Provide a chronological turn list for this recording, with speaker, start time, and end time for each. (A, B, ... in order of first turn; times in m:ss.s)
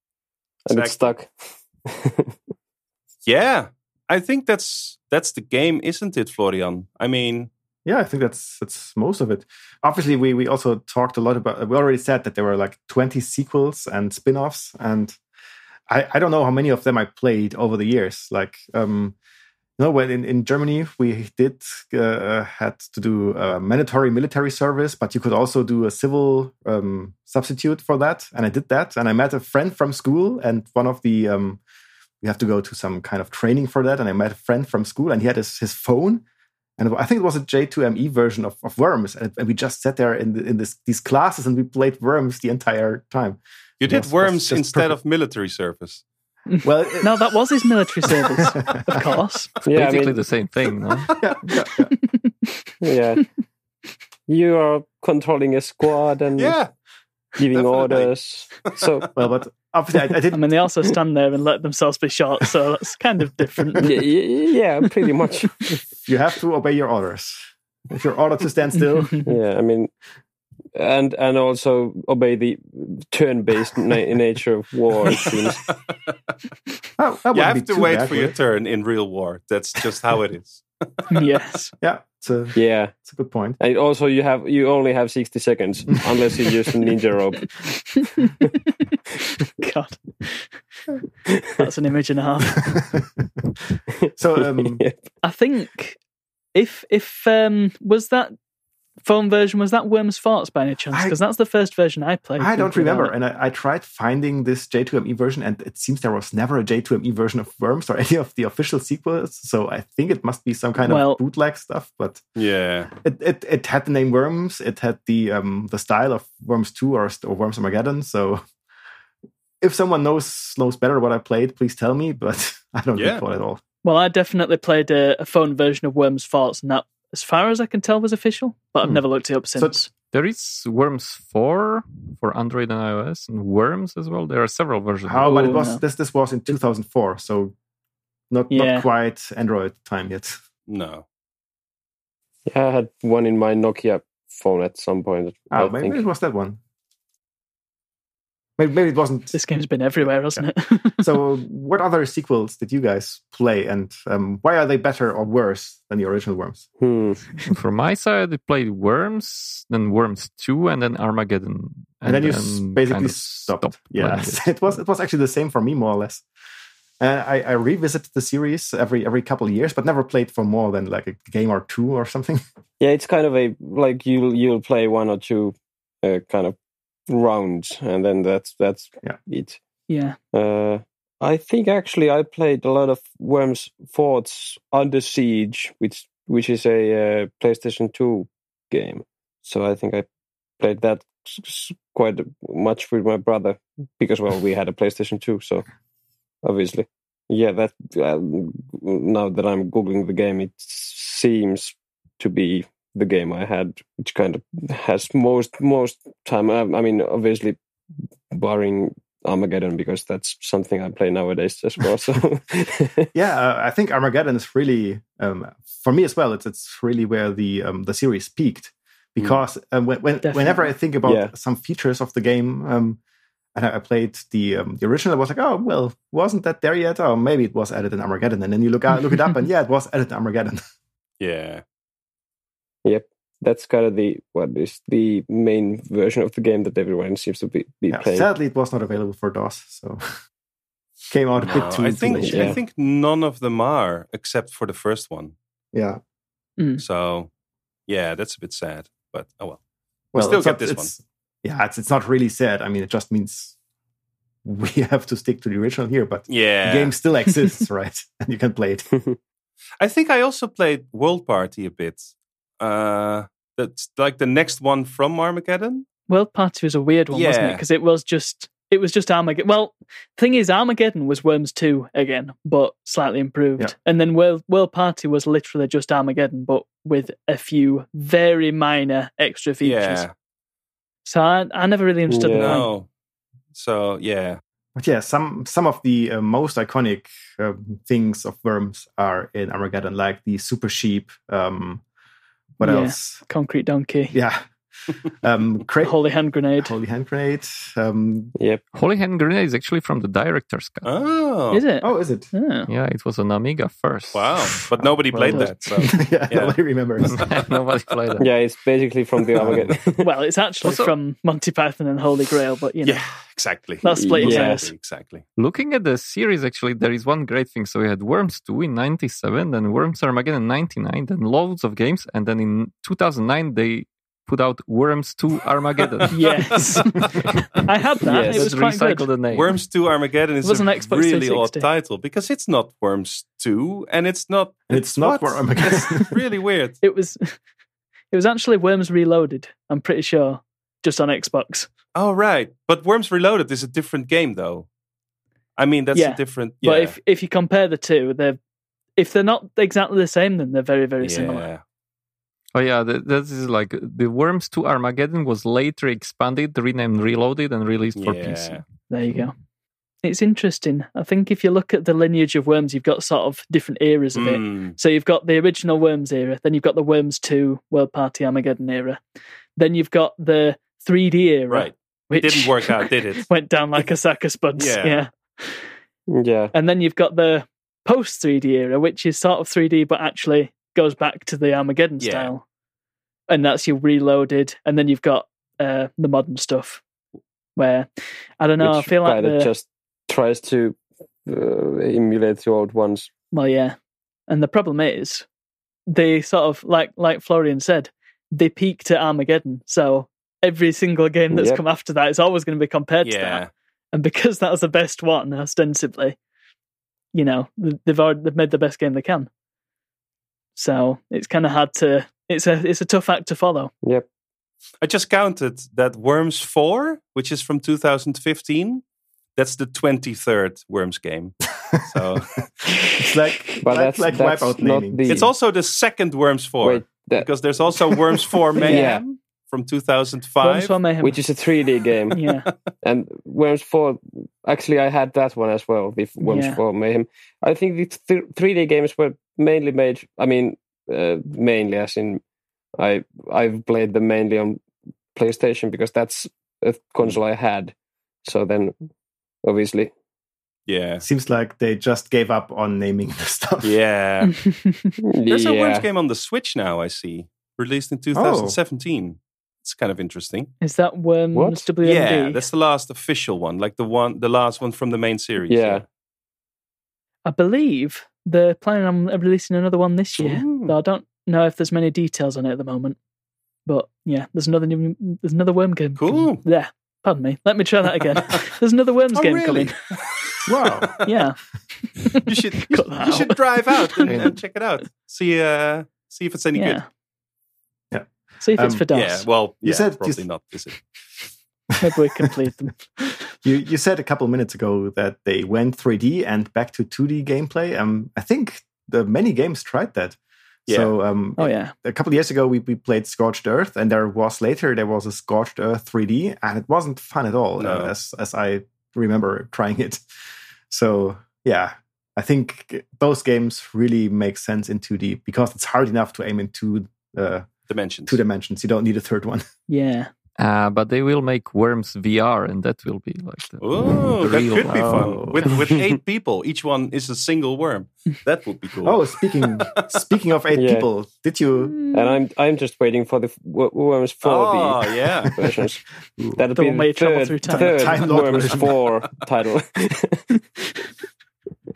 0:00.7-0:01.3 A
0:00.7-0:01.1 B
0:01.8-0:02.4 A
0:03.2-0:07.5 B
0:07.8-0:15.2 C
0:15.9-0:19.2 C
0:19.8-0:31.6 C
0:32.2-0:36.2 C
0:36.8-0:45.0 C
0:43.8-0:46.0 B
0:46.5-0:49.5 D
0:46.6-0:47.4 C
0:48.1-0:49.0 C
0:49.6-0:50.2 A
0:49.7-0:51.2 E
0:51.2-0:51.9 C
0:52.1-0:52.7 D
0:52.8-0:53.2 A
0:54.3-0:56.6 A
0:56.4-0:56.7 B
0:57.4-0:59.1 A
0:57.5-0:58.1 B
0:58.6-0:59.0 B
0:59.1-1:00.4 C
1:00.3-1:03.9 D
1:03.8-1:05.8 A
1:06.1-1:09.2 C
1:08.7-1:09.2 D
1:09.2-1:09.9 A
1:10.8-1:15.7 A
1:17.0-1:18.4 C
1:17.3-1:21.0 B
1:21.1-1:21.7 D
1:21.8-1:23.6 C
1:22.5-1:22.9 A
1:23.6-1:27.8 A
1:28.0-1:28.3 D
1:28.9-1:30.6 D
1:31.6-1:32.6 D
1:32.6-1:33.0 C
1:34.0-1:35.0 A
1:34.2-1:34.8 C
1:35.2-1:36.0 D
1:36.5-1:38.3 D
1:39.0-1:43.1 D
1:42.4-1:52.2 C
1:50.8-1:51.2 D
1:52.4-1:52.9 B
1:53.0-1:58.4 C
1:59.6-2:03.6 C
2:02.9-2:03.2 B
2:03.8-2:09.9 D
2:09.5-2:09.8 C
2:10.1-2:15.7 E
2:15.0-2:17.5 C
2:15.2-2:15.8 D
2:18.3-2:20.4 C
2:18.5-2:18.9 D
2:20.7-2:21.0 B
2:22.5-2:26.0 A
2:25.5-2:26.6 C
2:28.6-2:29.3 C
2:29.3-2:31.0 D
2:31.0-2:36.7 C
2:36.8-2:37.4 A
2:37.5-2:44.8 E
2:42.0-2:46.2 C
2:47.0-2:52.4 C
2:52.8-2:56.6 A
2:57.1-2:59.6 A
2:59.9-3:00.2 D
3:00.3-3:10.1 A
3:10.6-3:15.6 A
3:16.4-3:27.6 A
3:28.3-3:33.1 A
3:33.1-3:43.0 C
3:40.2-3:40.7 D
3:41.0-3:41.3 A
3:43.5-3:50.6 C
3:49.1-3:49.4 D
3:51.2-3:51.6 B
3:52.8-3:58.3 A
3:57.9-4:00.0 C
4:01.1-4:02.6 C
4:01.4-4:05.3 B
4:02.1-4:02.6 A
4:05.7-4:06.0 C
4:06.8-4:07.3 B
4:07.9-4:09.6 B
4:10.1-4:13.5 C
4:10.1-4:10.9 B
4:14.4-4:18.9 C
4:16.3-4:16.9 B
4:19.8-4:25.8 B
4:26.1-4:40.0 D
4:27.1-4:27.6 B
4:39.6-4:40.1 B
4:41.0-4:42.7 D
4:42.1-4:42.6 A
4:42.4-4:42.9 B
4:43.5-4:44.4 B
4:44.8-4:51.8 C
4:52.6-4:53.2 C
4:52.6-4:54.1 D
4:54.1-4:54.5 C
4:55.0-4:55.9 C
4:55.8-4:56.7 D
4:56.6-4:58.3 C
4:58.4-4:58.6 A
4:58.7-5:00.9 E
5:00.8-5:01.6 B
5:01.5-5:02.7 D
5:01.8-5:02.3 C
5:02.7-5:04.7 E
5:04.1-5:06.6 B
5:05.1-5:07.2 C
5:07.1-5:08.3 E
5:08.2-5:10.1 A
5:09.4-5:09.7 C
5:10.0-5:13.0 D
5:10.6-5:10.9 E
5:12.8-5:15.2 B
5:13.8-5:14.7 D
5:13.9-5:14.7 A
5:15.4-5:26.8 E
5:25.8-5:26.1 B
5:26.1-5:27.0 D
5:27.6-5:29.1 D
5:28.1-5:28.5 A
5:28.2-5:29.6 E
5:29.3-5:36.8 B
5:30.4-5:31.7 D
5:34.7-5:36.1 C
5:36.8-5:37.4 D
5:38.1-5:41.7 D
5:41.9-5:44.7 B
5:45.6-5:47.0 B
5:45.9-5:48.4 D
5:49.0-5:51.5 D
5:51.0-5:51.6 B
5:52.5-5:59.3 E
5:58.0-5:58.6 B
5:58.9-5:59.3 D
6:00.0-6:09.0 D
6:04.1-6:04.8 B
6:09.6-6:15.7 D
6:11.5-6:13.2 B
6:14.6-6:15.0 B
6:16.1-6:16.5 A
6:16.5-6:22.4 D
6:22.0-6:22.3 B
6:23.3-6:26.8 D
6:27.6-6:29.5 D
6:28.6-6:33.1 A
6:33.3-6:33.8 D
6:34.3-6:35.2 D
6:35.9-6:46.2 D
6:41.3-6:41.6 A
6:43.0-6:43.5 B
6:47.1-6:49.3 D
6:50.6-6:53.7 D
6:54.8-6:58.8 B
6:59.4-7:02.5 B
7:01.9-7:05.1 C
7:03.6-7:05.3 A
7:05.1-7:10.8 B
7:06.6-7:07.3 A
7:08.6-7:09.0 A
7:08.6-7:08.9 D
7:10.4-7:11.2 D
7:11.0-7:12.2 A
7:12.1-7:12.5 D
7:12.8-7:22.2 A
7:16.2-7:16.6 D
7:22.8-7:24.6 A
7:25.1-7:27.7 A
7:28.2-7:28.7 A
7:29.4-7:29.9 A
7:30.7-7:31.0 B
7:31.0-7:33.8 C
7:33.6-7:34.3 B
7:34.2-7:35.0 D
7:35.0-7:35.9 A
7:35.3-7:40.5 B
7:38.1-7:38.6 C
7:40.6-7:42.4 D
7:41.3-7:41.6 A
7:41.8-7:45.8 B
7:45.5-7:45.8 A
7:47.2-7:53.0 D
7:50.2-7:50.7 B
7:53.6-7:59.8 D
7:56.0-7:56.4 B
7:59.1-8:01.0 B
8:00.5-8:01.0 C
8:01.0-8:04.2 D
8:02.2-8:06.8 B
8:04.1-8:04.3 C
8:06.5-8:06.8 D
8:07.9-8:08.8 C
8:08.4-8:09.3 D
8:08.9-8:10.8 B
8:09.6-8:10.2 C
8:11.7-8:12.3 C
8:11.8-8:13.2 D
8:13.4-8:30.0 C
8:20.7-8:20.9 B
8:21.4-8:21.7 D
8:27.6-8:27.9 B
8:30.7-8:37.5 C
8:37.7-8:38.2 B
8:38.0-8:39.4 C
8:39.7-8:40.1 D
8:40.4-8:45.5 E
8:43.6-8:49.0 B
8:44.7-8:45.5 C
8:48.8-8:51.8 C
8:49.6-8:50.0 B
8:50.5-8:50.8 A
8:51.6-8:52.2 D
8:51.9-8:55.8 A
8:54.2-8:55.5 B
8:56.2-8:56.4 C
8:56.4-9:00.3 A
8:56.5-8:58.1 D
8:57.4-8:58.8 C